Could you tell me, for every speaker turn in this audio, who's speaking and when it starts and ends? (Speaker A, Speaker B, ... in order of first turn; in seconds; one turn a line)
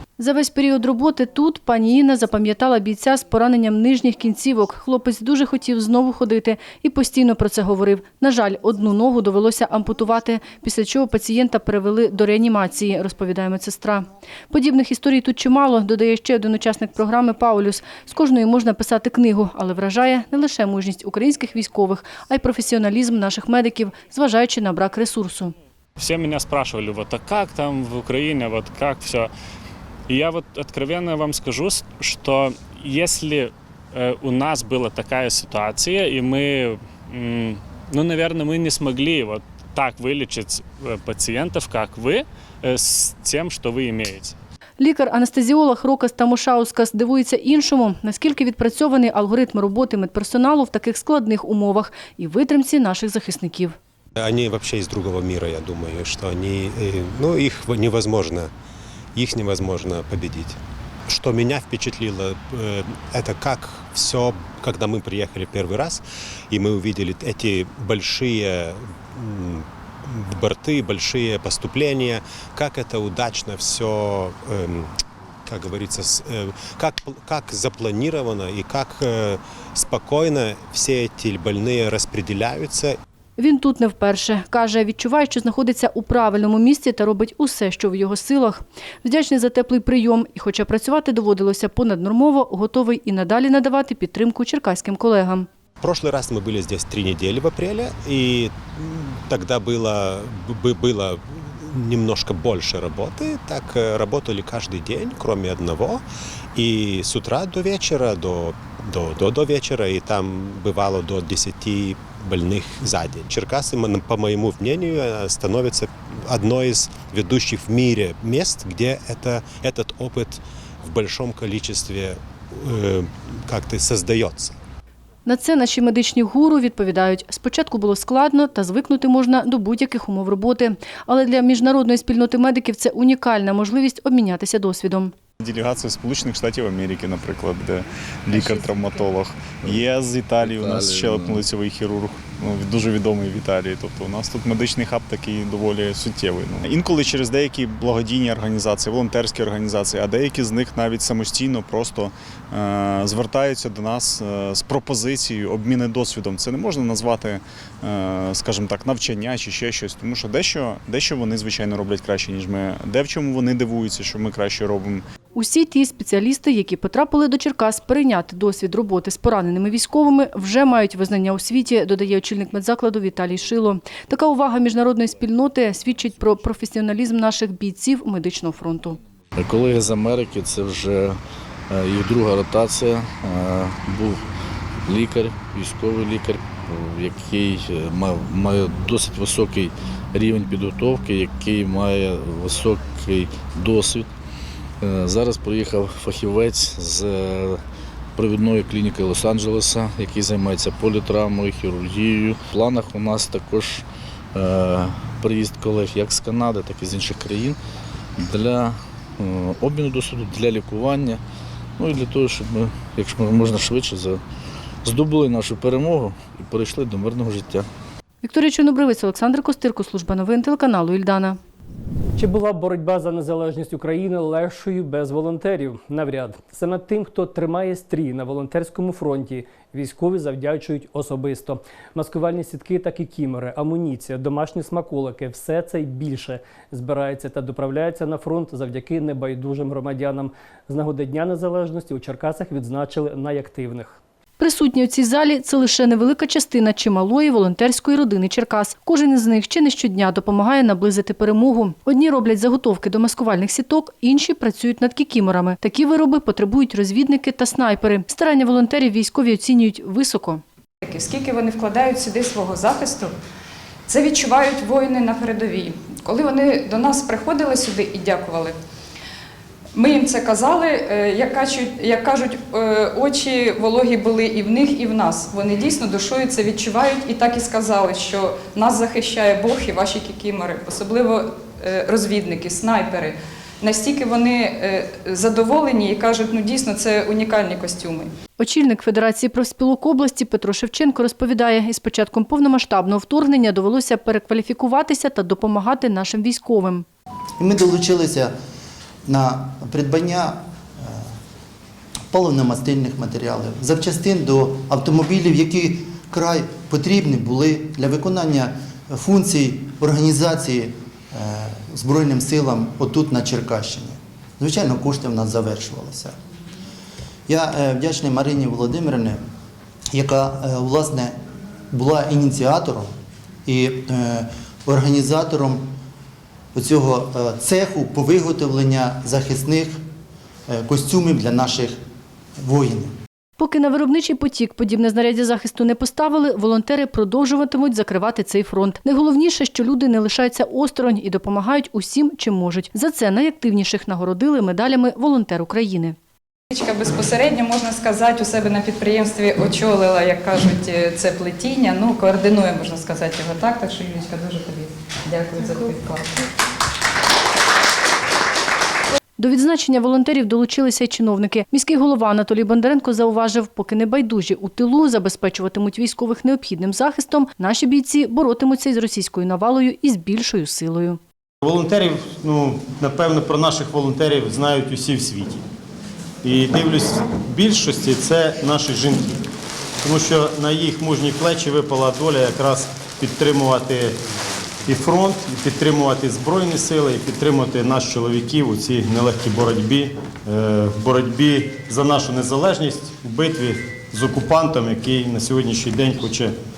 Speaker A: 0.2-25.5
Speaker B: 26.0-29.3
Speaker B: 30.1-44.4
Speaker A: 44.8-53.8
Speaker C: 54.2-58.5
Speaker C: 59.1-83.0
Speaker A: 83.4-95.5
Speaker C: 95.8-106.0
Speaker C: 106.5-124.6
Speaker A: 125.3-135.1
Speaker D: 135.4-165.1
Speaker E: 140.4-141.5
Speaker A: 165.3-179.0
Speaker E: 179.4-181.2
Speaker E: 181.7-184.2
Speaker E: 184.9-194.1
Speaker E: 194.8-197.6
Speaker E: 198.2-207.6
Speaker E: 208.2-211.2
Speaker E: 211.8-214.2
Speaker E: 214.8-217.7
Speaker A: 218.2-221.4
Speaker F: 222.2-244.0
Speaker A: 244.4-260.4
Speaker G: 260.8-263.1
Speaker G: 263.9-268.6
Speaker G: 269.7-288.1
Speaker A: 288.4-296.9
Speaker H: 297.4-298.3
Speaker H: 299.1-301.1
Speaker H: 302.1-316.2
Speaker H: 317.3-319.2
Speaker H: 319.9-321.2
Speaker H: 321.7-322.9
Speaker H: 323.5-325.7
Speaker H: 326.5-329.8
Speaker H: 330.5-331.8
Speaker H: 332.4-332.9
Speaker A: 333.4-346.0
Speaker G: 346.5-356.2
Speaker A: 359.2-371.0
Speaker I: 371.4-375.5
Speaker I: 376.2-379.2
Speaker I: 379.8-384.0
Speaker I: 384.7-396.4